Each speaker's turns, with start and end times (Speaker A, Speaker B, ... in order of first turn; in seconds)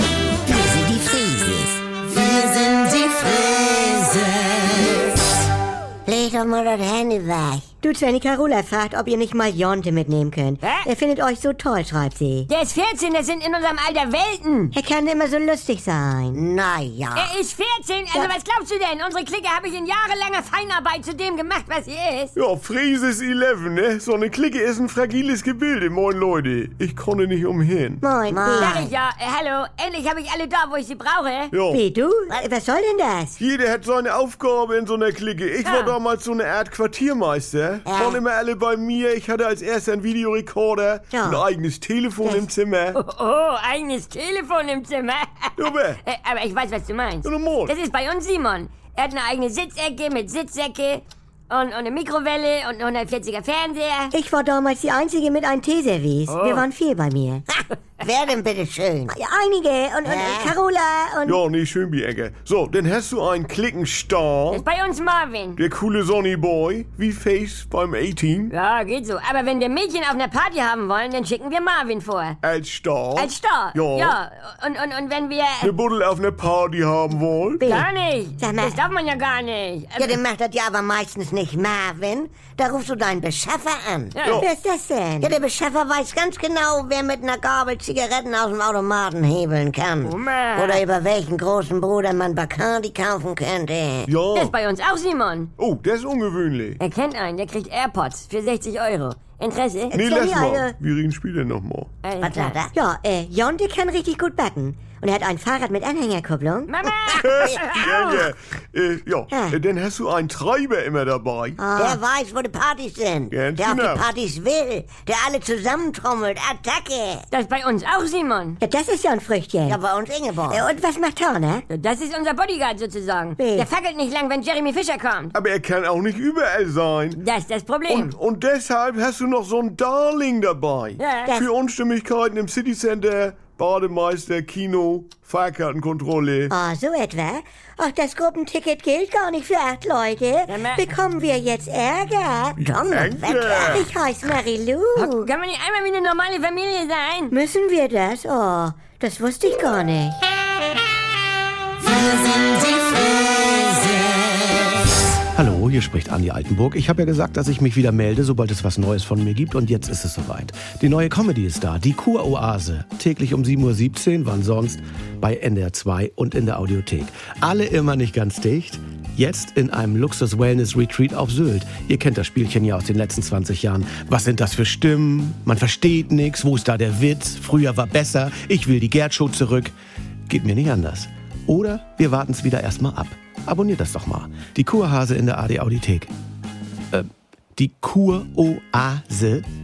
Speaker A: 0.5-5.1, 6.1-7.7, 16.3-17.4, 28.3-28.9, 37.9-38.3, 57.5-59.1, 60.0-60.6, 80.0-84.3, 85.2-94.2, 102.2-102.7, 107.0-107.8, 111.7-117.3, 119.7-120.7, 142.6-143.7
Speaker B: 7.8-12.5, 14.7-16.4, 28.0-28.9, 31.7-33.4, 41.1-41.5, 42.2-42.5, 54.1-57.4, 59.1-61.4, 77.6-77.9, 78.4-78.8, 84.3-85.3, 99.9-100.8, 102.7-106.7, 109.3-109.6, 111.6-112.0, 118.6-119.8, 120.5-121.7, 123.4-123.7, 131.2-131.5, 136.5-142.6, 143.6-145.3, 147.3-150.2
Speaker C: 10.6-10.9, 12.5-14.8, 17.1-22.4, 28.6-31.5, 35.6-36.0, 43.0-54.1, 56.3-56.7, 64.5-65.6, 68.5-72.4, 73.2-75.8, 77.6-80.2, 84.2-84.5, 90.0-90.8, 94.3-95.5, 96.8-100.0, 102.0-102.6, 106.7-108.2, 117.3-118.6, 121.7-125.3, 127.2-128.1, 131.0-131.3, 140.5-140.8, 145.0-147.3
Speaker D: 22.4-28.0, 31.5-31.8, 33.4-43.0, 45.6-46.0, 47.2-47.7, 61.3-64.6, 65.6-68.5, 72.4-74.1, 75.6-77.7, 94.1-94.5, 95.6-96.8, 99.9-101.9, 107.2-111.6, 113.3-114.0, 125.3-127.2, 127.9-136.5, 142.9-143.8
Speaker E: 155.3-179.7, 180.3-186.1, 186.9-189.5